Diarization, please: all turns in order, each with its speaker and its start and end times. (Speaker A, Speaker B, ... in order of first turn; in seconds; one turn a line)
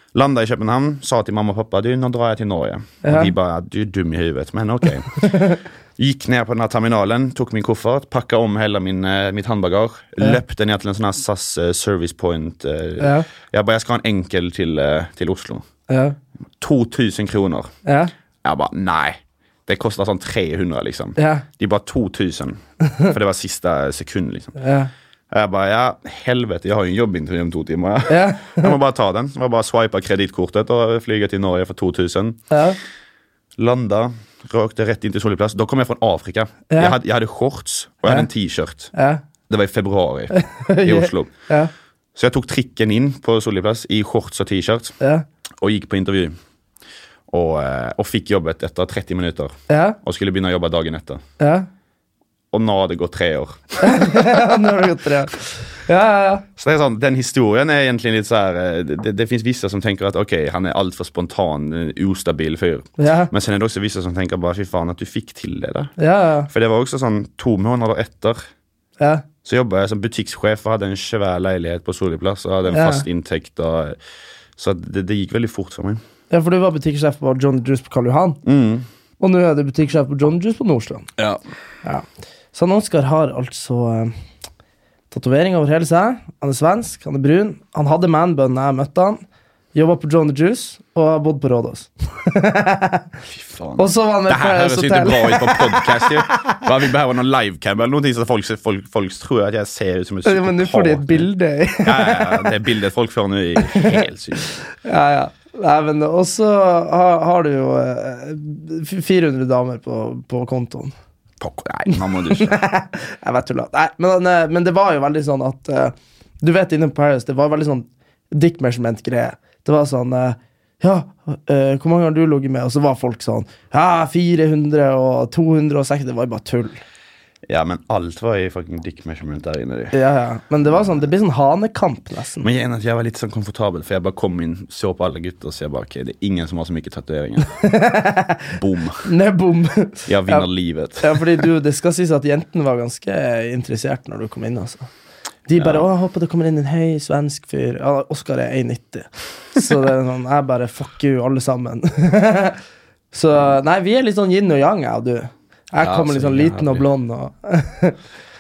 Speaker A: 0.1-15.7
Speaker B: 3.0-3.3
Speaker B: 5.2-5.6
Speaker B: 13.0-13.3
Speaker B: 15.9-16.2
Speaker A: 16.6-17.7
Speaker B: 17.9-18.1
Speaker A: 18.4-24.6
Speaker B: 21.2-21.4
Speaker B: 24.6-24.9
Speaker A: 25.3-32.5
Speaker B: 28.1-28.8
Speaker B: 32.5-32.8
Speaker A: 33.6-38.9
Speaker B: 36.7-37.0
Speaker B: 38.9-39.2
Speaker A: 39.5-41.4
Speaker B: 40.3-41.7
Speaker A: 42.1-45.0
Speaker A: 45.6-46.4
Speaker A: 47.3-51.2
Speaker B: 49.7-50.0
Speaker B: 51.4-51.7
Speaker A: 52.5-54.6
Speaker B: 53.8-56.5
Speaker A: 56.6-65.9
Speaker B: 63.0-63.3
Speaker B: 66.0-66.5
Speaker A: 66.5-68.4
Speaker A: 69.4-74.0
Speaker B: 72.7-73.0
Speaker A: 74.6-76.0
Speaker B: 76.3-78.4
Speaker A: 78.4-78.9
Speaker B: 79.2-81.1
Speaker B: 81.8-84.1
Speaker B: 85.1-89.2
Speaker B: 89.8-93.1
Speaker A: 93.3-101.3
Speaker B: 93.8-96.6
Speaker B: 100.2-102.5
Speaker A: 101.8-104.5
Speaker B: 103.7-104.0
Speaker B: 104.8-110.9
Speaker A: 111.4-112.5
Speaker B: 111.9-126.8
Speaker A: 127.5-129.9
Speaker B: 129.9-132.5
Speaker A: 130.7-131.0
Speaker A: 132.4-137.6
Speaker B: 137.6-138.5
Speaker A: 138.5-139.1
Speaker B: 139.0-140.5
Speaker A: 140.1-141.5
Speaker B: 141.0-144.9
Speaker B: 145.5-152.6
Speaker A: 145.5-145.8
Speaker B: 153.1-158.0
Speaker A: 155.8-156.8